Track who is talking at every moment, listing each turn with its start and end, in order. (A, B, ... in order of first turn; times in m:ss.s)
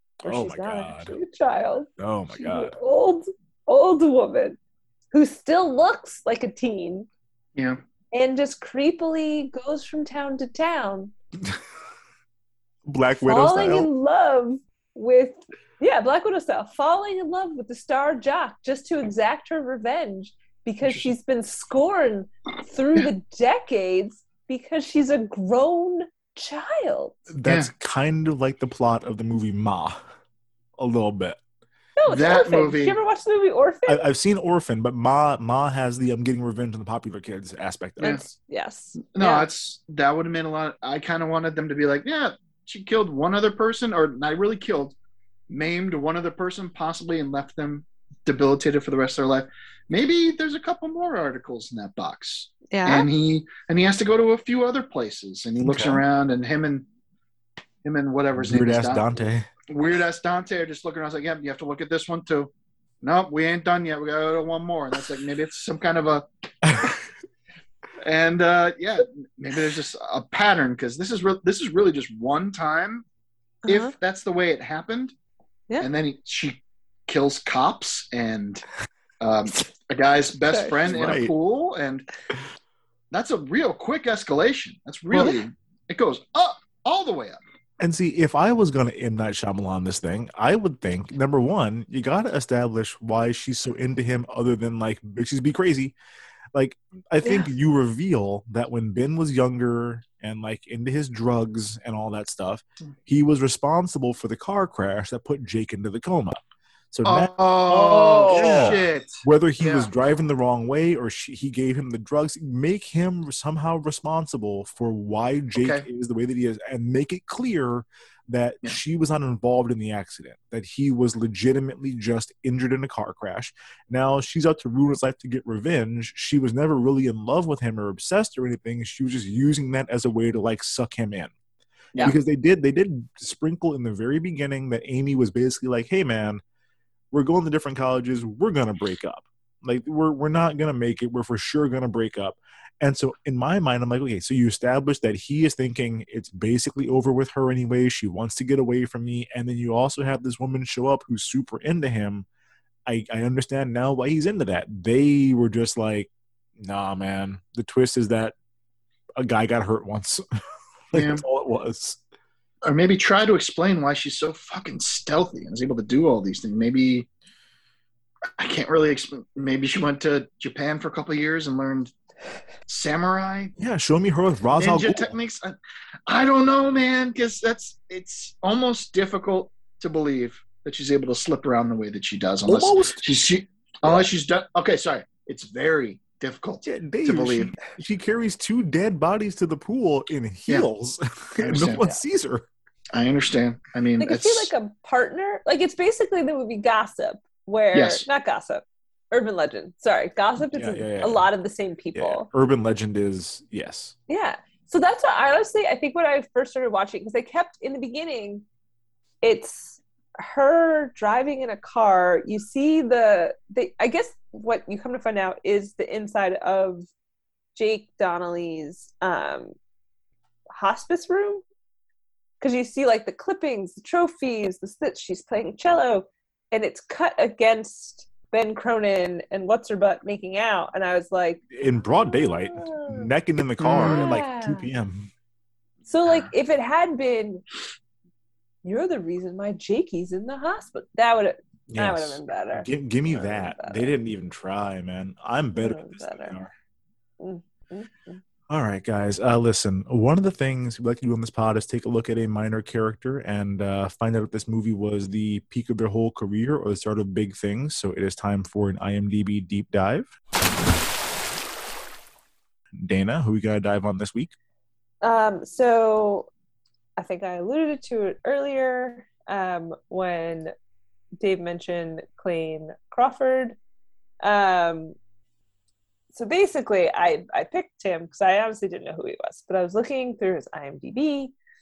0:00.2-0:01.2 A
0:00.2-0:04.6 B
0:02.0-0:02.8 A
0:05.1-0:07.1 B
0:07.5-0:07.8 C
0:08.1-0:11.1 B
0:12.8-0:13.9 A
0:13.2-0:27.3 B
0:20.8-0:21.1 C
0:27.3-0:30.1 A
0:27.4-0:27.7 C
0:30.8-0:31.4 A
0:32.0-0:34.1 B
0:32.1-0:33.0 C
0:33.9-0:38.2 A
0:38.0-0:39.5 B
0:39.1-0:45.0 C
0:45.5-0:56.8 C
0:52.7-0:53.1 B
0:55.6-0:56.0 A
0:57.8-1:02.5 C
0:58.3-0:59.5 A
1:03.0-1:06.3 C
1:06.6-1:06.9 A
1:08.0-1:13.0 C
1:13.6-1:13.9 B
1:13.7-1:15.1 C
1:15.8-1:18.6 C
1:19.2-1:22.1 C
1:20.5-1:21.1 B
1:20.8-1:21.3 A
1:23.1-1:27.4 C
1:27.8-1:35.9 A
1:36.5-1:46.4 A
1:46.9-2:11.3 A
1:47.0-1:49.9 C
1:48.3-1:48.8 B
1:55.6-1:55.8 C
2:12.0-2:16.4 A
2:17.1-2:32.2 A
2:32.8-2:38.3 A
2:39.2-2:40.2 A
2:40.9-2:42.0 A
2:40.9-2:41.2 C
2:42.6-2:47.1 C
2:48.4-2:51.9 C
2:52.7-2:53.5 C
2:53.6-2:55.1 A
2:54.5-2:55.6 C
2:56.1-3:07.7 C
3:02.4-3:03.0 A
3:06.6-3:12.5 A
3:11.4-3:11.8 C
3:12.9-3:14.5 C
3:14.0-3:22.3 B
3:17.7-3:18.0 C
3:20.5-3:21.3 A
3:21.9-3:24.0 A
3:24.1-3:28.4 B
3:29.2-3:36.9 B
3:37.5-3:39.5 B
3:40.5-3:41.4 B
3:42.4-3:51.4 B
3:51.5-3:55.1 A
3:52.0-3:53.1 B
3:53.6-3:54.1 C
3:53.8-3:54.7 B
3:55.9-3:57.4 B
3:58.6-4:03.9 B
4:01.7-4:06.5 A
4:05.6-4:06.4 B
4:07.2-4:08.2 B
4:08.5-4:20.1 A
4:22.7-4:24.3 A
4:25.0-4:26.3 B
4:27.0-4:30.5 B
4:31.2-4:33.6 B
4:34.2-4:35.0 B
4:36.1-4:41.3 B